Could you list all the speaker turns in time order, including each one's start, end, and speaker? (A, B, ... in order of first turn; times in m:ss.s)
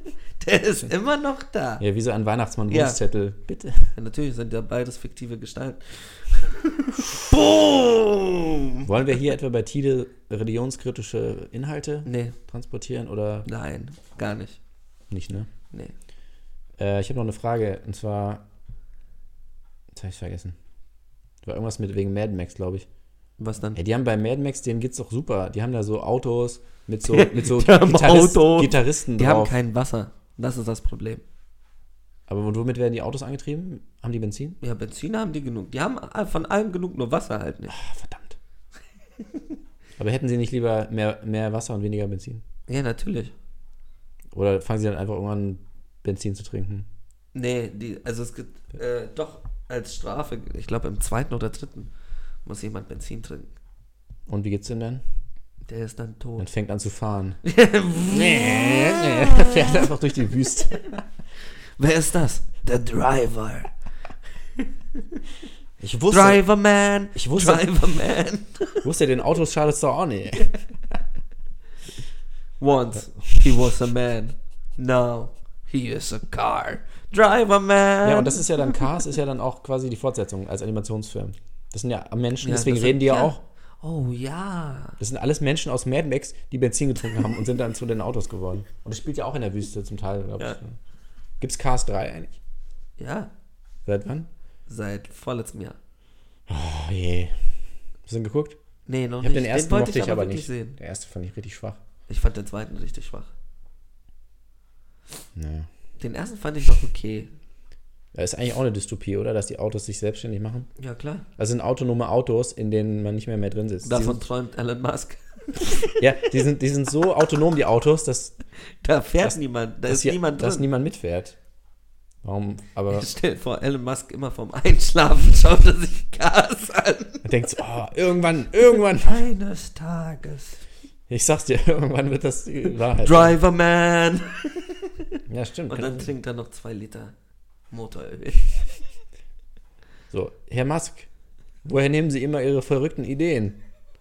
0:00.4-0:01.8 A
0:01.8-0:03.9 B
0:02.7-0:03.0 A
0:03.9-0:08.9 A
0:08.8-0:13.5 B
0:12.0-0:12.4 A
0:13.4-0:14.6 A
0:15.1-0:15.5 B
0:16.8-0:18.4 B
0:19.9-0:20.6 B
0:21.4-0:22.9 B
0:23.4-0:23.8 A
0:23.7-0:29.5 B
0:27.1-0:31.2 A
0:32.3-0:34.6 B
0:34.6-0:37.8 A
0:37.7-0:38.4 B
0:40.0-0:42.4 B
0:42.7-0:43.3 A
0:44.3-0:46.8 B
0:47.3-0:51.9 A
0:52.4-0:53.5 A
0:54.3-0:55.0 B
0:55.7-0:56.5 A
0:56.4-0:57.4 B
0:57.4-0:59.8 A
0:58.1-1:01.0 B
1:01.8-1:03.7 A
1:05.8-1:06.4 B
1:06.1-1:08.8 A
1:07.1-1:07.7 B
1:08.8-1:10.6 B
1:12.6-1:18.8 A
1:18.0-1:23.4 B
1:22.4-1:25.0 A
1:25.0-1:30.8 B
1:31.4-1:32.4 B
1:33.0-1:33.3 A
1:33.8-1:34.3 B
1:34.7-1:35.8 A
1:36.5-1:37.4 B
1:38.0-1:38.6 B
1:38.9-1:40.8 A
1:39.2-1:41.8 B
1:42.1-1:43.3 A
1:45.3-1:45.7 B
1:46.0-1:47.3 A
1:48.1-1:50.7 B
1:50.8-1:51.2 A
1:51.4-1:54.2 B
1:53.8-1:56.0 A
1:56.0-1:58.4 B
1:58.8-2:00.7 A
1:59.2-2:01.4 B
2:02.2-2:03.1 B
2:02.9-2:07.2 A
2:07.2-2:09.2 B
2:09.0-2:10.6 A
2:11.1-2:13.4 B
2:13.0-2:14.9 A
2:15.3-2:16.1 B
2:15.7-2:17.1 A
2:17.7-2:18.6 A
2:20.1-2:21.1 B
2:21.6-2:23.6 B